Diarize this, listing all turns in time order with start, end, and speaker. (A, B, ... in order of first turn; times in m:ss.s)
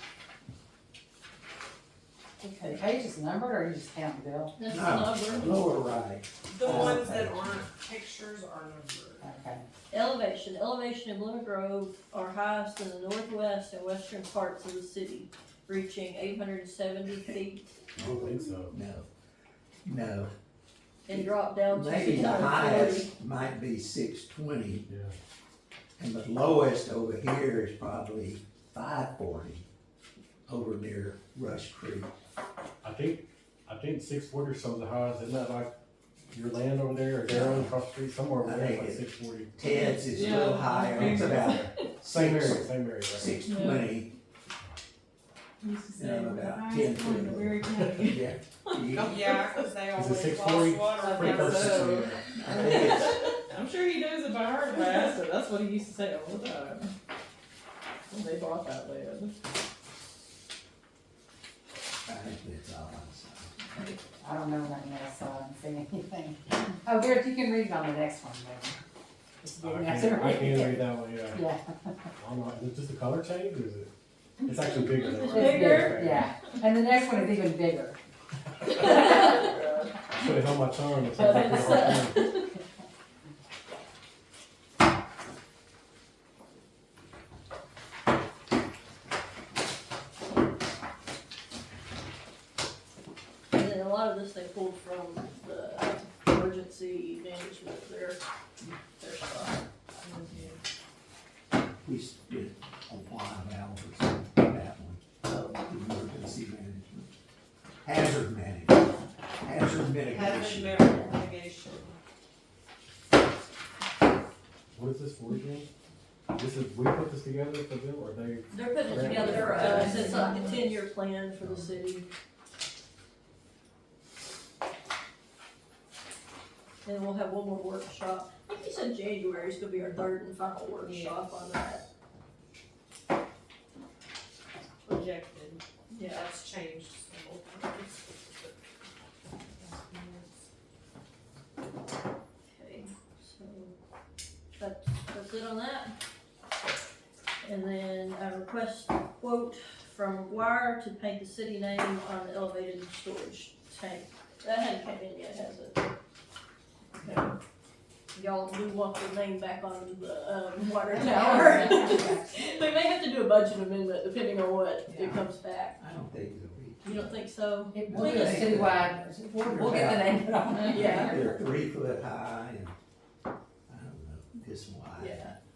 0:02.4-0:04.6 A
0:04.6-0:05.6 B
0:04.7-0:07.7 C
0:06.5-0:09.2 D
0:09.2-0:09.6 A
0:09.9-0:17.6 B
0:18.0-0:18.8 E
0:18.7-0:19.1 C
0:19.8-0:20.3 C
0:21.1-0:23.1 B
0:21.1-0:24.8 C
0:24.9-0:25.1 E
0:26.0-0:29.6 C
0:30.5-0:32.1 C
0:32.8-0:35.7 E
0:36.3-0:43.4 E
0:37.3-0:37.7 C
0:38.4-0:44.1 C
0:39.6-0:41.8 F
0:43.5-0:43.9 F
0:45.6-0:49.5 F
0:45.9-0:49.4 C
0:48.9-0:53.5 D
0:49.9-0:52.9 E
0:51.0-0:56.9 F
0:52.3-0:53.3 C
0:58.1-0:59.3 F
1:02.0-1:03.5 C
1:04.2-1:08.8 A
1:09.4-1:12.1 A
1:09.5-1:11.4 E
1:12.2-1:13.9 E
1:14.4-1:16.3 E
1:14.4-1:16.1 F
1:15.3-1:18.0 A
1:15.6-1:15.8 B
1:18.8-1:19.8 F
1:20.1-1:22.4 E
1:21.1-1:22.2 B
1:33.5-1:38.2 B
1:39.0-1:39.6 B
1:40.0-1:40.6 D
1:41.8-1:47.1 C
1:47.8-1:51.0 C
1:50.1-1:52.0 D
1:54.7-1:55.7 E
1:56.3-2:00.3 E
1:58.5-2:02.0 B
2:00.2-2:00.5 D
2:06.8-2:11.8 B
2:10.8-2:11.2 D
2:14.8-2:18.5 D
2:15.9-2:16.2 B
2:19.5-2:20.3 D
2:22.4-2:23.7 B
2:24.6-2:25.9 B
2:27.4-2:35.9 B
2:37.0-2:37.3 B
2:38.1-2:45.8 B
2:40.9-2:42.4 A
2:44.9-2:45.2 A
2:45.8-2:47.1 C
2:46.8-2:48.6 B
2:47.7-2:51.4 A
2:47.9-2:50.1 C
2:49.6-2:51.1 B
2:50.7-2:52.7 C
2:53.7-2:55.4 C
2:55.0-2:55.3 B